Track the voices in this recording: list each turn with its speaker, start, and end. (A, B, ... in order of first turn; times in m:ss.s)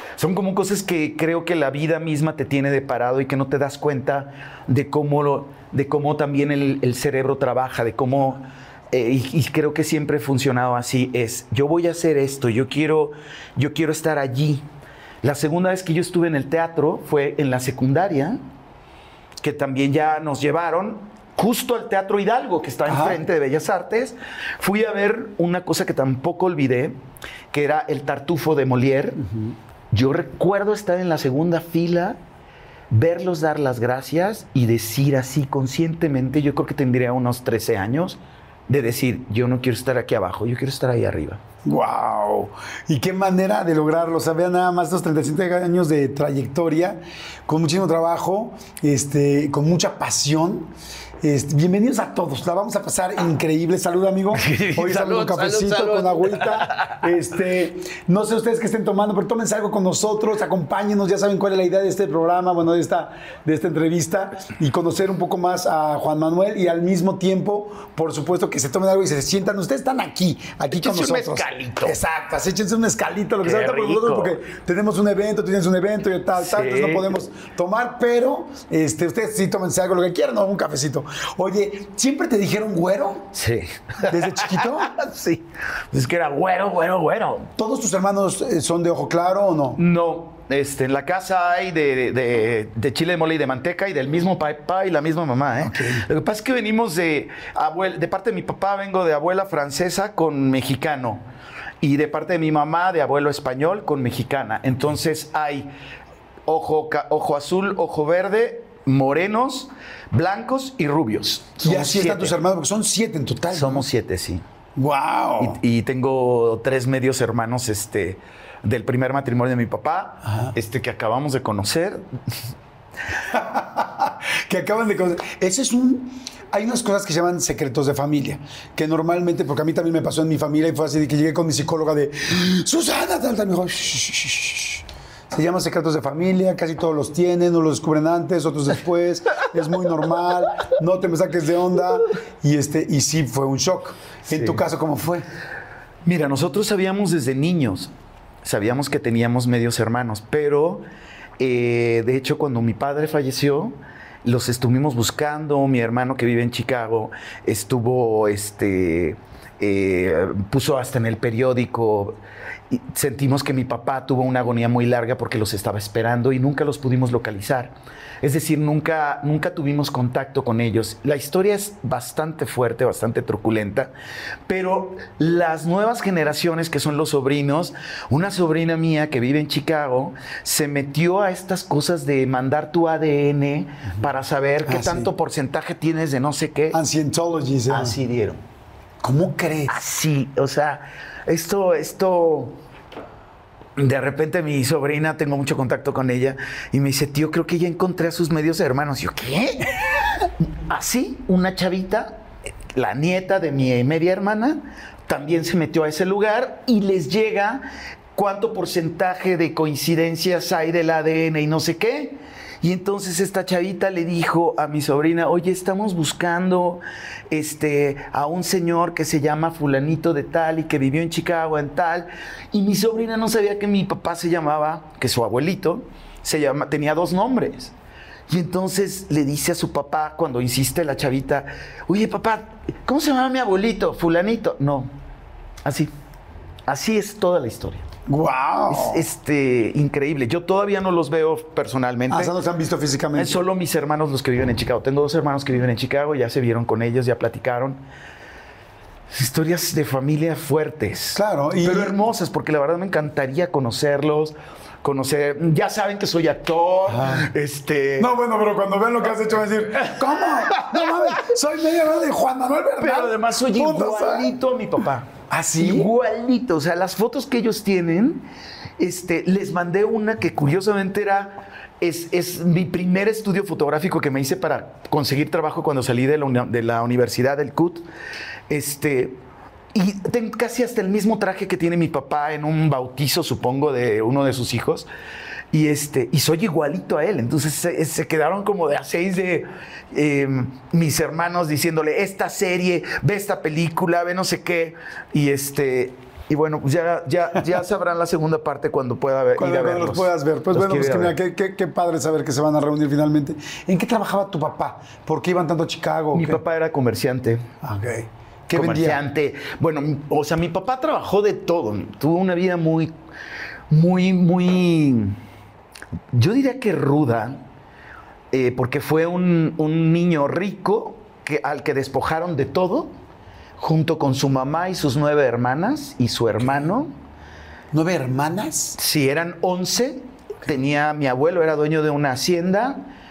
0:00.2-0:14.6 A
0:15.2-0:18.4 A
0:19.4-0:27.0 A
0:22.8-0:23.2 B
0:27.5-0:29.2 A
0:29.2-0:29.5 B
0:29.9-0:32.2 A
0:32.9-0:41.4 A
0:41.6-1:23.3 B
0:54.3-0:57.0 A
1:10.7-1:12.0 A
1:13.4-1:14.4 A
1:16.4-1:17.1 A
1:23.3-1:27.5 A
1:24.0-1:24.9 B
1:27.6-1:29.8 B
1:29.8-1:41.2 A
1:35.6-1:36.0 B
1:41.8-1:45.7 A
1:46.4-1:52.3 A
1:51.6-1:53.8 B
1:53.5-1:54.4 A
1:54.8-1:55.6 B
1:55.4-2:02.0 A
2:03.3-2:25.2 B
2:24.3-2:24.6 A
2:26.0-2:27.9 A
2:28.4-2:30.8 A
2:31.4-2:42.2 A
2:42.7-2:53.9 A
2:54.5-3:06.8 A
3:04.6-3:05.1 B
3:06.7-3:08.0 B
3:07.7-3:08.4 A
3:09.0-3:09.7 B
3:09.7-3:12.6 A
3:13.8-3:27.6 A
3:28.1-3:47.7 A
3:48.3-3:54.9 A
3:55.6-3:55.9 A
3:56.7-3:57.8 A
3:58.1-3:59.0 B
3:58.7-4:02.3 A
4:02.1-4:03.4 B
4:03.1-4:07.8 A
4:09.1-4:18.1 A
4:11.1-4:12.0 B
4:16.9-4:17.3 B
4:18.0-4:24.3 B
4:20.5-4:21.2 A
4:22.8-4:28.2 A
4:25.3-4:25.9 B
4:28.8-4:37.8 A
4:38.5-4:39.2 A
4:39.7-4:44.9 A
4:45.5-5:01.2 A
4:59.4-5:06.4 B
5:06.1-5:07.4 A
5:07.6-5:09.0 B
5:08.5-5:12.9 A
5:13.7-5:15.2 A
5:16.1-5:17.4 A
5:18.3-5:22.9 A
5:23.6-5:26.9 A
5:27.7-5:28.8 B
5:28.8-5:32.9 A